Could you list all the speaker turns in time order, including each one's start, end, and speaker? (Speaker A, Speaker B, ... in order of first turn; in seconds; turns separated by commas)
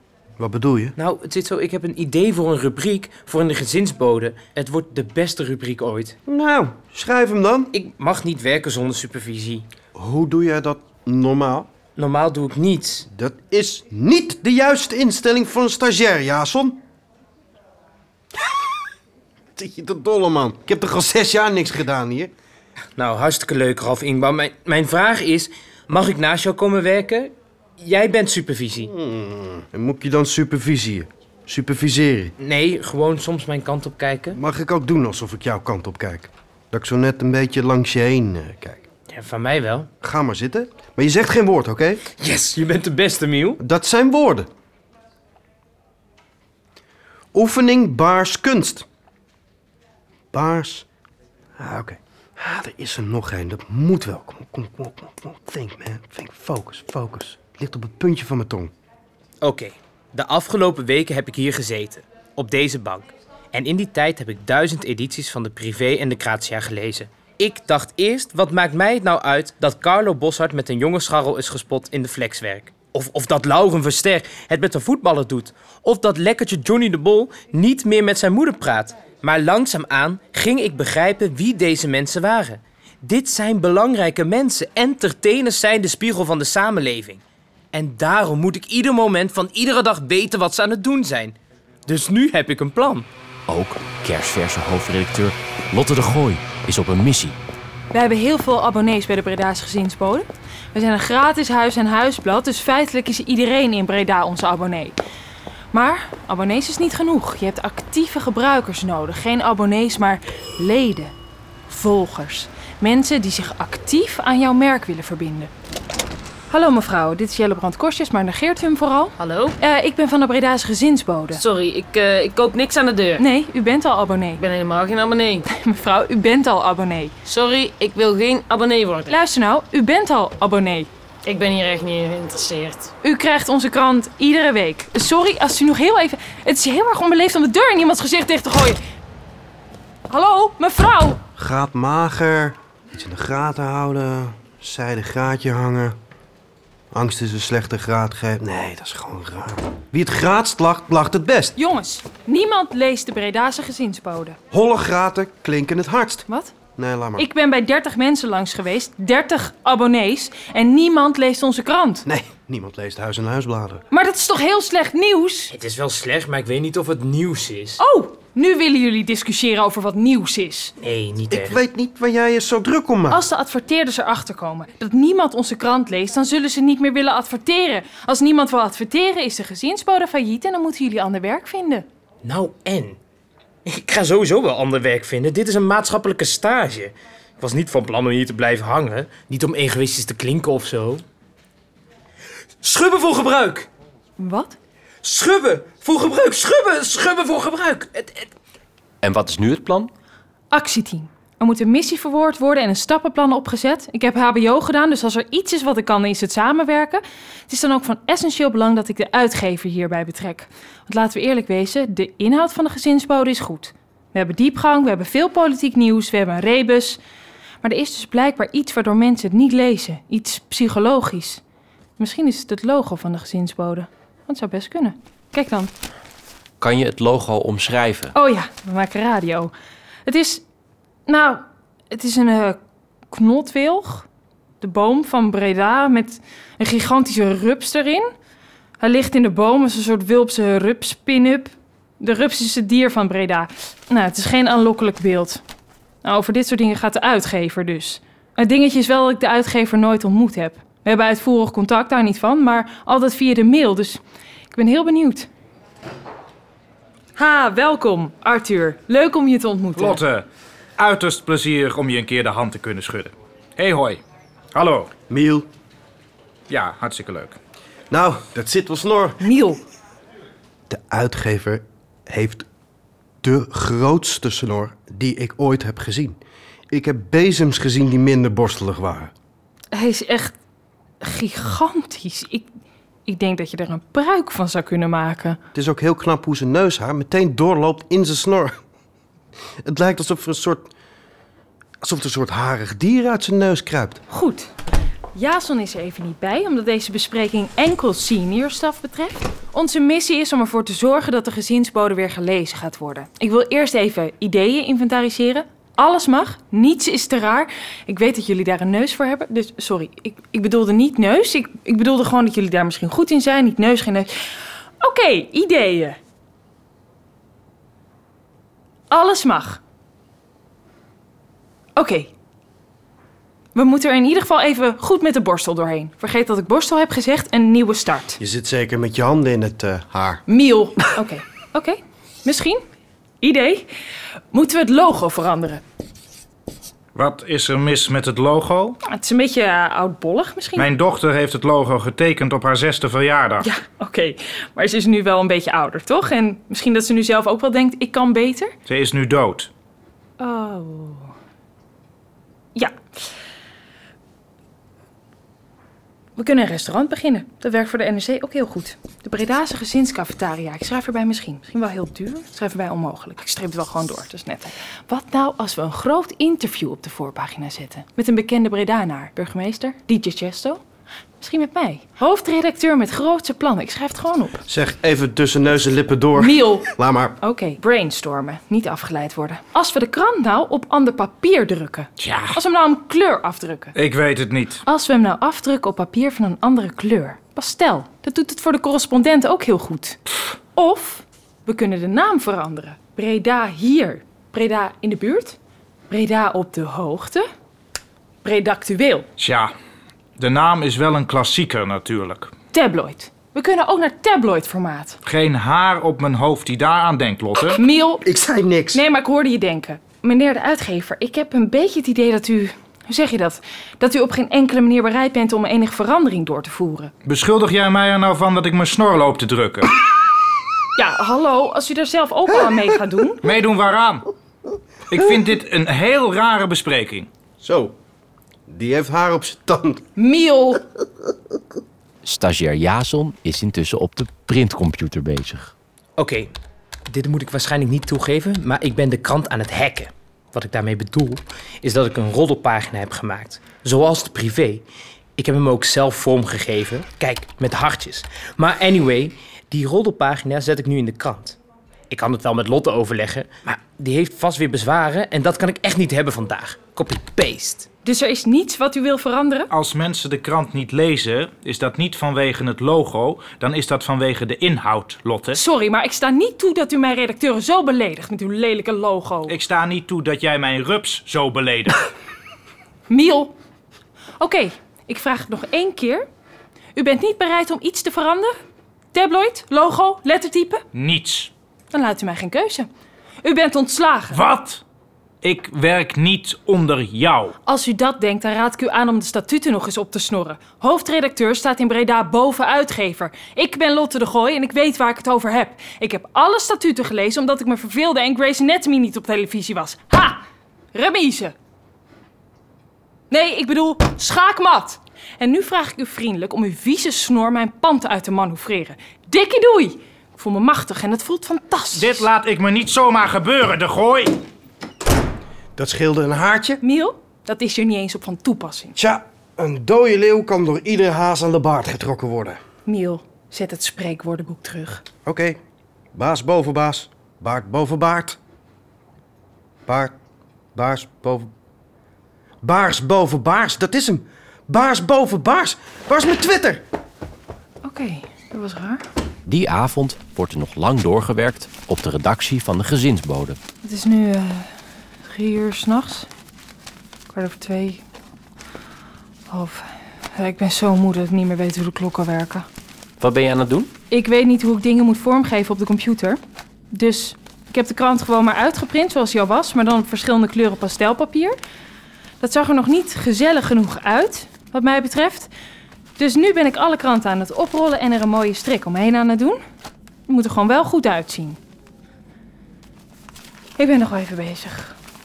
Speaker A: 0.4-0.9, Speaker B: 0.9-6.2, Speaker A: 6.3-7.7, Speaker B: 7.7-9.6, Speaker A: 9.9-11.7, Speaker B: 11.9-13.1, Speaker A: 13.1-16.8, Speaker A: 19.6-22.3, Speaker B: 22.9-28.9, Speaker A: 28.8-32.3, Speaker B: 32.4-34.4, Speaker A: 34.3-38.8, Speaker B: 39.1-39.9, Speaker A: 40.0-42.0, Speaker B: 42.2-43.6, Speaker A: 43.6-44.5, Speaker A: 47.3-48.9, Speaker A: 50.3-50.9, Speaker A: 51.6-58.7, Speaker B: 59.4-87.2, Speaker B: 87.7-93.1, Speaker C: 93.5-97.4, Speaker D: 97.9-105.0, Speaker D: 105.7-111.1, Speaker D: 111.7-115.5, Speaker D: 116.5-121.4, Speaker E: 119.2-119.5, Speaker E: 121.3-123.2, Speaker D: 123.2-124.4, Speaker E: 124.4-125.4, Speaker D: 125.5-127.1, Speaker E: 127.2-129.1, Speaker D: 129.1-130.9, Speaker E: 131.2-132.9, Speaker D: 133.0-138.8, Speaker D: 140.1-141.2, Speaker A: 141.3-145.9, Speaker A: 146.9-151.6, Speaker D: 151.6-154.4, Speaker A: 154.5-157.3, Speaker D: 156.3-156.5, Speaker D: 157.2-162.1, Speaker A: 162.1-163.8, Speaker D: 163.9-165.5, Speaker B: 165.5-167.8, Speaker D: 167.8-170.7, Speaker B: 170.8-171.6, Speaker A: 171.3-173.2, Speaker D: 173.1-181.8, Speaker B: 182.2-183.0, Speaker B: 183.6-191.0, Speaker B: 192.6-193.7, Speaker D: 194.2-194.6, Speaker B: 195.0-198.3, Speaker C: 199.0-199.9, Speaker D: 200.5-217.0, Speaker D: 217.6-221.4, Speaker D: 222.0-225.7, Speaker C: 226.6-228.1, Speaker D: 228.1-229.5, Speaker D: 230.1-230.4, Speaker D: 231.1-232.6, Speaker D: 233.1-234.1, Speaker D: 234.6-238.1, Speaker D: 238.8-245.4, Speaker D: 246.0-255.3, Speaker D: 257.1-260.0, Speaker F: 260.8-264.0, Speaker F: 264.6-264.9, Speaker A: 265.1-265.4, Speaker F: 266.5-267.3, Speaker A: 267.9-269.2, Speaker D: 269.2-269.6, Speaker A: 270.7-272.4, Speaker A: 273.2-276.2, Speaker A: 276.7-279.1, Speaker D: 279.7-280.3, Speaker D: 281.0-282.5, Speaker D: 283.1-285.4, Speaker A: 285.5-288.5, Speaker A: 289.6-290.7, Speaker A: 291.8-294.0, Speaker D: 294.1-294.5, Speaker D: 295.1-316.0, Speaker D: 318.9-319.6, Speaker D: 321.8-322.1, Speaker D: 323.5-328.2, Speaker A: 328.2-330.2, Speaker D: 330.3-332.6, Speaker D: 333.2-333.7, Speaker D: 334.3-335.6, Speaker F: 336.9-338.7, Speaker D: 338.9-340.7, Speaker F: 340.6-343.4, Speaker D: 343.4-348.5, Speaker F: 348.7-349.5, Speaker D: 350.2-351.1, Speaker D: 356.2-370.6, Speaker D: 371.2-374.4, Speaker A: 374.5-377.2, Speaker D: 376.1-383.7, Speaker F: 382.0-382.3, Speaker F: 383.8-384.6, Speaker D: 384.6-390.0, Speaker D: 390.5-395.4, Speaker D: 395.9-397.2, Speaker D: 398.2-399.1, Speaker F: 399.2-399.5, Speaker F: 400.2-402.3, Speaker D: 402.5-405.0, Speaker F: 405.1-407.6, Speaker D: 407.6-408.1, Speaker A: 408.0-408.8, Speaker D: 408.7-416.9, Speaker F: 417.1-419.6, Speaker D: 420.7-423.2, Speaker F: 423.2-424.0, Speaker F: 424.9-427.1, Speaker A: 427.4-427.7, Speaker A: 428.5-429.8, Speaker D: 429.9-430.6, Speaker C: 432.0-435.5, Speaker B: 436.0-436.3, Speaker B: 436.9-444.6, Speaker B: 445.2-451.4, Speaker B: 451.9-457.7, Speaker D: 457.8-459.5, Speaker F: 459.5-465.3, Speaker D: 465.3-469.4, Speaker F: 469.3-471.7, Speaker D: 472.9-473.3, Speaker D: 474.2-476.1, Speaker D: 476.7-478.3, Speaker D: 478.9-480.6, Speaker F: 480.7-481.3, Speaker D: 481.7-482.7, Speaker D: 483.2-484.2, Speaker F: 484.1-484.6, Speaker F: 485.2-487.3, Speaker D: 487.4-500.2, Speaker D: 500.7-501.3, Speaker D: 503.1-512.1, Speaker F: 511.7-514.2, Speaker A: 515.5-516.6, Speaker D: 516.6-518.7, Speaker A: 518.8-522.4, Speaker D: 522.6-524.8, Speaker A: 525.0-525.4, Speaker A: 525.9-528.2, Speaker A: 529.7-529.9, Speaker A: 530.5-531.3, Speaker A: 532.4-536.6, Speaker D: 537.6-538.8, Speaker C: 539.3-543.4, Speaker D: 543.6-544.5, Speaker D: 545.0-546.1, Speaker D: 547.1-547.8, Speaker D: 549.3-552.5, Speaker C: 553.0-553.7, Speaker D: 553.9-556.2, Speaker D: 556.7-561.4, Speaker D: 562.2-565.3, Speaker D: 566.0-569.4, Speaker D: 570.1-571.4, Speaker D: 573.6-574.7